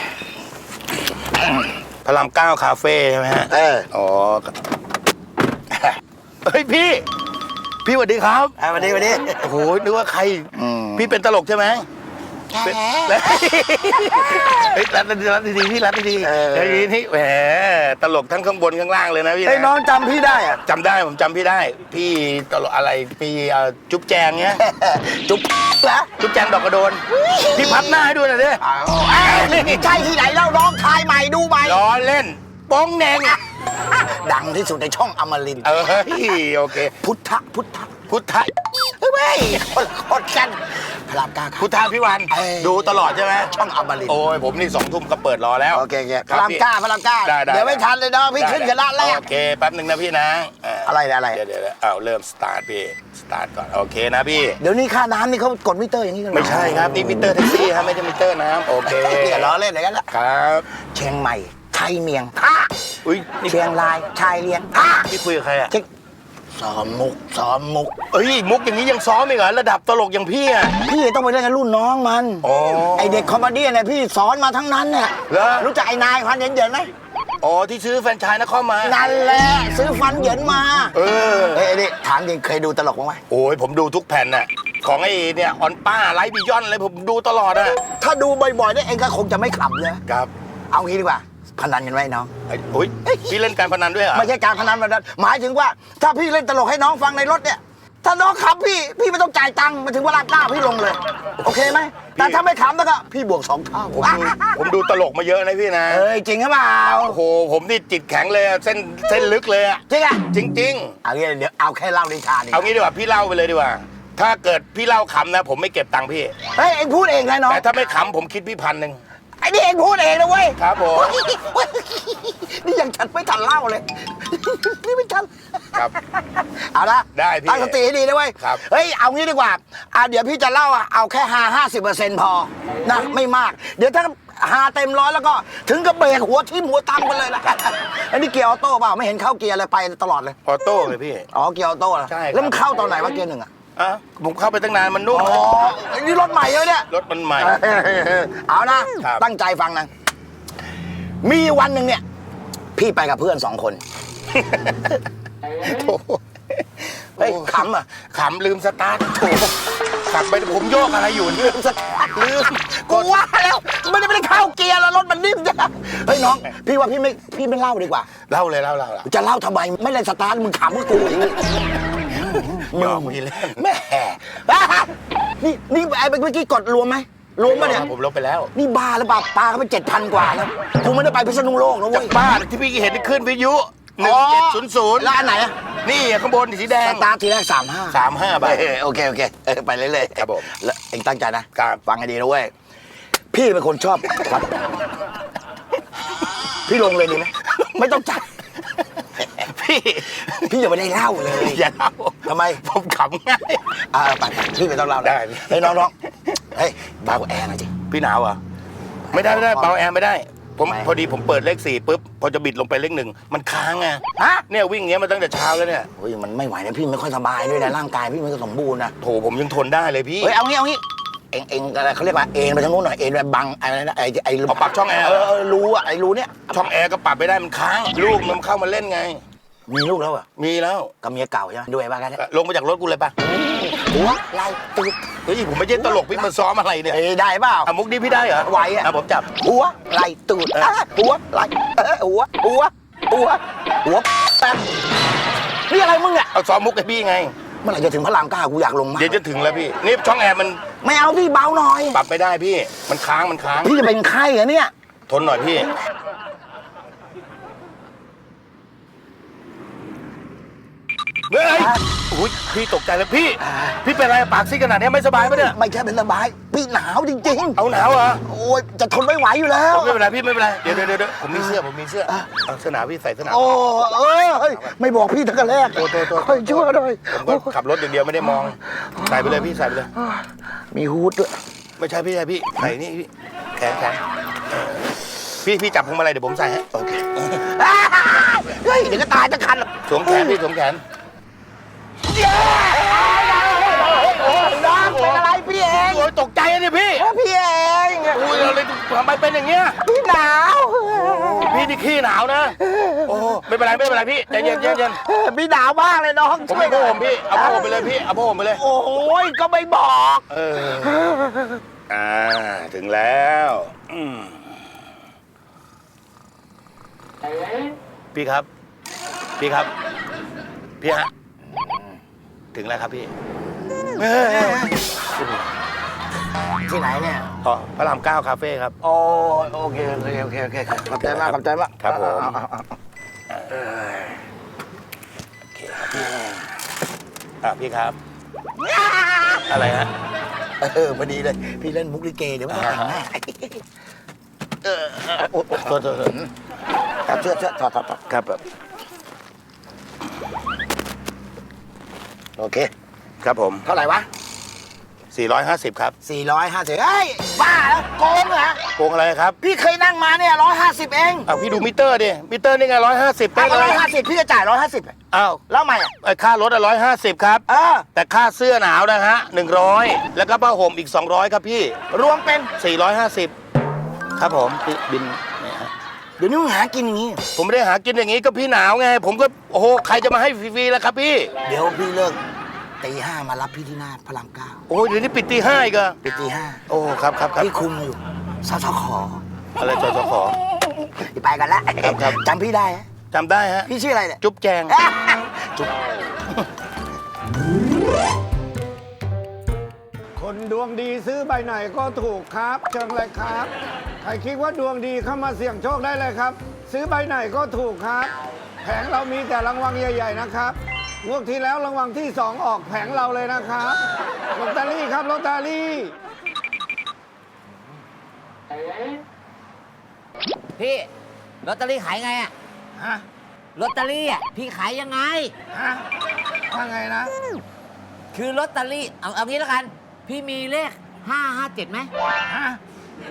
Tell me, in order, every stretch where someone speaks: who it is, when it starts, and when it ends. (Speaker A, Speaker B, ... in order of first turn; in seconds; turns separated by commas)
Speaker A: 2.0-4.5, Speaker B: 3.5-3.9, Speaker A: 6.4-7.0, Speaker A: 7.8-8.5, Speaker B: 8.6-9.4, Speaker A: 9.4-11.8, Speaker B: 10.5-11.1, Speaker B: 12.5-13.4, Speaker A: 12.6-19.7, Speaker B: 14.2-14.8, Speaker B: 16.2-16.9, Speaker B: 19.4-20.6, Speaker A: 20.6-24.6, Speaker B: 24.6-26.1, Speaker A: 26.2-28.6, Speaker B: 27.1-28.0, Speaker B: 28.6-31.8, Speaker A: 29.1-29.9, Speaker A: 31.6-33.4, Speaker B: 33.9-35.7, Speaker A: 35.6-36.9, Speaker B: 36.8-37.9, Speaker A: 38.1-38.5, Speaker B: 38.8-41.7, Speaker A: 41.6-43.5, Speaker B: 42.3-44.2, Speaker A: 44.1-46.6, Speaker B: 45.7-49.2, Speaker A: 47.2-54.6, Speaker B: 50.8-51.4, Speaker B: 54.6-57.7, Speaker A: 56.3-59.5, Speaker B: 58.7-60.1, Speaker A: 60.1-60.6, Speaker B: 60.8-62.7, Speaker A: 63.0-63.6, Speaker B: 63.4-65.0, Speaker A: 64.8-65.7, Speaker B: 66.5-68.0, Speaker A: 68.1-70.8, Speaker B: 70.8-76.9, Speaker A: 72.4-73.3, Speaker A: 75.3-75.7, Speaker A: 77.4-79.0, Speaker B: 78.8-81.0, Speaker A: 80.9-81.7, Speaker B: 81.5-83.2, Speaker A: 83.3-87.8, Speaker B: 87.8-90.0, Speaker B: 90.7-92.3, Speaker A: 92.5-94.3, Speaker B: 93.0-93.4, Speaker B: 94.1-104.7, Speaker A: 102.1-102.4, Speaker A: 104.0-106.1, Speaker B: 105.9-107.2, Speaker A: 107.0-111.0, Speaker B: 109.9-110.2, Speaker B: 111.0-112.7, Speaker A: 112.5-116.3, Speaker B: 116.5-117.6, Speaker A: 117.5-119.0, Speaker B: 119.4-140.4, Speaker A: 120.6-121.2, Speaker A: 127.1-127.8, Speaker A: 140.4-141.3, Speaker B: 141.3-143.5, Speaker A: 142.1-142.7, Speaker A: 143.8-145.5, Speaker B: 145.1-149.9, Speaker A: 146.9-147.6, Speaker B: 151.2-152.0, Speaker B: 152.7-153.8, Speaker A: 154.4-154.9, Speaker A: 155.6-156.2, Speaker B: 157.2-157.8, Speaker A: 157.2-161.6, Speaker B: 161.4-168.1, Speaker A: 162.2-163.2, Speaker A: 168.3-169.1, Speaker B: 169.0-171.5, Speaker B: 172.1-177.9, Speaker A: 172.5-173.7, Speaker A: 177.4-178.5, Speaker B: 178.5-182.2, Speaker A: 181.9-185.1, Speaker B: 184.0-185.6, Speaker A: 185.8-187.1, Speaker B: 186.8-192.5, Speaker A: 187.9-188.7, Speaker A: 190.2-190.4, Speaker A: 191.5-191.8, Speaker B: 193.3-194.5, Speaker B: 196.6-198.3, Speaker A: 199.2-200.5, Speaker B: 200.3-201.6, Speaker A: 201.3-203.8, Speaker B: 202.2-202.7, Speaker B: 203.8-205.9, Speaker A: 205.0-205.9, Speaker B: 206.5-207.7, Speaker A: 207.8-208.4, Speaker B: 209.1-209.7, Speaker A: 209.1-215.9, Speaker B: 214.2-214.4, Speaker B: 215.9-218.9, Speaker A: 219.0-220.3, Speaker B: 220.2-226.6, Speaker A: 224.5-225.3, Speaker A: 226.5-229.2, Speaker B: 229.7-230.2, Speaker A: 230.4-230.9, Speaker B: 231.0-232.2, Speaker A: 232.2-233.1, Speaker B: 233.2-235.1, Speaker A: 235.2-237.0, Speaker B: 235.7-236.3, Speaker B: 236.9-237.7, Speaker A: 237.7-239.3, Speaker B: 238.4-244.7, Speaker B: 245.7-246.3, Speaker A: 246.3-247.3, Speaker B: 247.6-249.2, Speaker A: 248.9-250.6, Speaker B: 250.8-252.0, Speaker A: 251.9-253.7, Speaker B: 253.6-254.7, Speaker A: 255.1-255.7, Speaker A: 261.3-265.6, Speaker B: 261.5-261.8, Speaker B: 263.4-263.8, Speaker B: 265.2-267.6, Speaker A: 267.5-268.2, Speaker B: 268.2-270.1, Speaker A: 269.7-273.7, Speaker B: 271.3-272.4, Speaker B: 273.2-277.6, Speaker A: 275.7-279.9, Speaker B: 278.3-281.4, Speaker A: 281.8-284.0, Speaker A: 285.3-286.6, Speaker B: 286.7-290.4, Speaker A: 289.9-290.8, Speaker B: 292.1-296.1, Speaker A: 293.6-297.1, Speaker B: 296.9-298.5, Speaker A: 298.1-299.8, Speaker B: 299.8-301.8, Speaker A: 301.1-305.0, Speaker B: 302.6-303.4, Speaker B: 304.3-307.9, Speaker A: 306.5-308.6, Speaker B: 308.5-311.6, Speaker A: 310.3-311.1, Speaker A: 311.9-314.6, Speaker A: 318.1-318.5, Speaker A: 319.4-319.7, Speaker A: 320.8-321.1, Speaker B: 321.4-322.0, Speaker A: 322.5-323.1, Speaker B: 324.0-324.8, Speaker A: 324.0-324.9, Speaker B: 326.6-327.3, Speaker A: 327.4-328.7, Speaker B: 328.8-332.7, Speaker A: 331.0-332.4, Speaker A: 333.3-333.6, Speaker B: 333.6-334.1, Speaker A: 335.5-336.1, Speaker B: 335.8-336.5, Speaker A: 337.4-338.0, Speaker B: 338.7-339.4, Speaker A: 339.5-339.9, Speaker B: 340.6-343.6, Speaker A: 342.5-343.0, Speaker B: 344.6-346.3, Speaker A: 345.6-346.1, Speaker B: 347.1-348.0, Speaker A: 348.1-348.4, Speaker B: 352.4-352.7, Speaker A: 353.2-353.6, Speaker B: 353.6-354.1, Speaker A: 355.1-355.9, Speaker B: 356.0-358.6, Speaker A: 358.8-359.4, Speaker B: 359.4-361.3, Speaker A: 361.2-363.8, Speaker B: 363.3-364.9, Speaker A: 365.1-365.4, Speaker B: 365.5-365.9, Speaker A: 366.0-371.8, Speaker B: 367.5-367.9, Speaker B: 371.9-372.5, Speaker A: 372.5-373.3, Speaker A: 374.2-375.7, Speaker B: 376.2-377.2, Speaker A: 377.3-381.3, Speaker B: 381.4-382.2, Speaker B: 382.8-384.6, Speaker A: 384.7-385.9, Speaker B: 386.0-386.6, Speaker A: 386.7-387.5, Speaker B: 387.4-389.2, Speaker A: 389.6-390.4, Speaker B: 390.5-392.9, Speaker A: 391.8-392.2, Speaker A: 393.1-393.7, Speaker B: 393.6-395.7, Speaker A: 394.2-394.7, Speaker C: 400.2-403.5, Speaker C: 404.0-413.8, Speaker C: 414.3-415.9, Speaker D: 420.6-420.9, Speaker D: 421.4-422.3, Speaker C: 422.8-423.0, Speaker D: 423.5-425.3, Speaker C: 425.5-425.8, Speaker C: 426.5-427.1, Speaker D: 428.1-431.9, Speaker C: 432.3-432.6